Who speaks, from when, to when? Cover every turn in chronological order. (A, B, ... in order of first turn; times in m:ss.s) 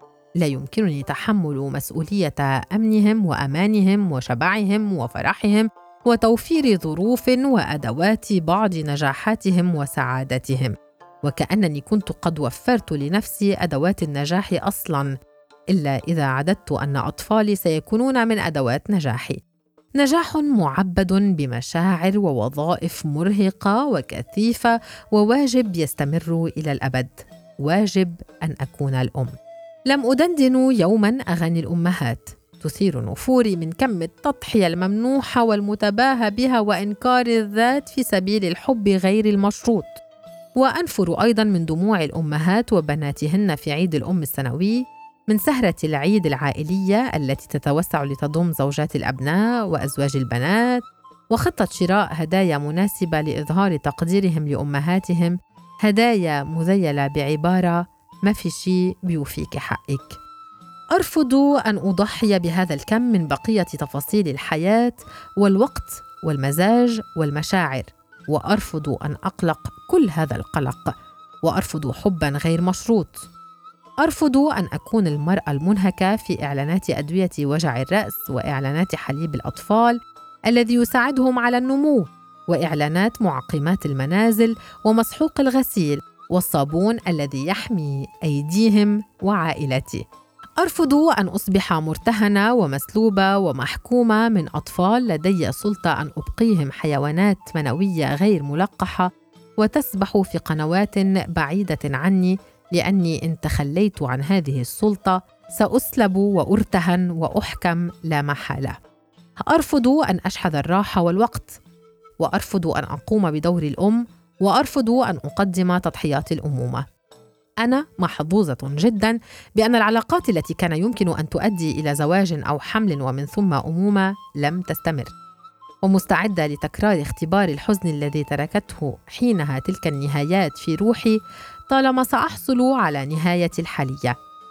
0:00.4-0:15.1 A
0:15.7-0:19.4 A
0:20.0-0:29.3 A
0:29.9-0:39.9 A
0:40.6-1:00.2 A
1:00.9-1:10.9 A
1:11.4-1:13.2 A
1:14.0-1:20.0 A
1:20.5-1:30.0 A
1:30.6-1:39.1 A
1:39.6-1:48.8 A
1:49.5-1:51.6 A
1:52.2-1:56.8 A
1:57.6-2:05.1 A
2:05.8-2:11.2 A
2:11.7-2:14.2 A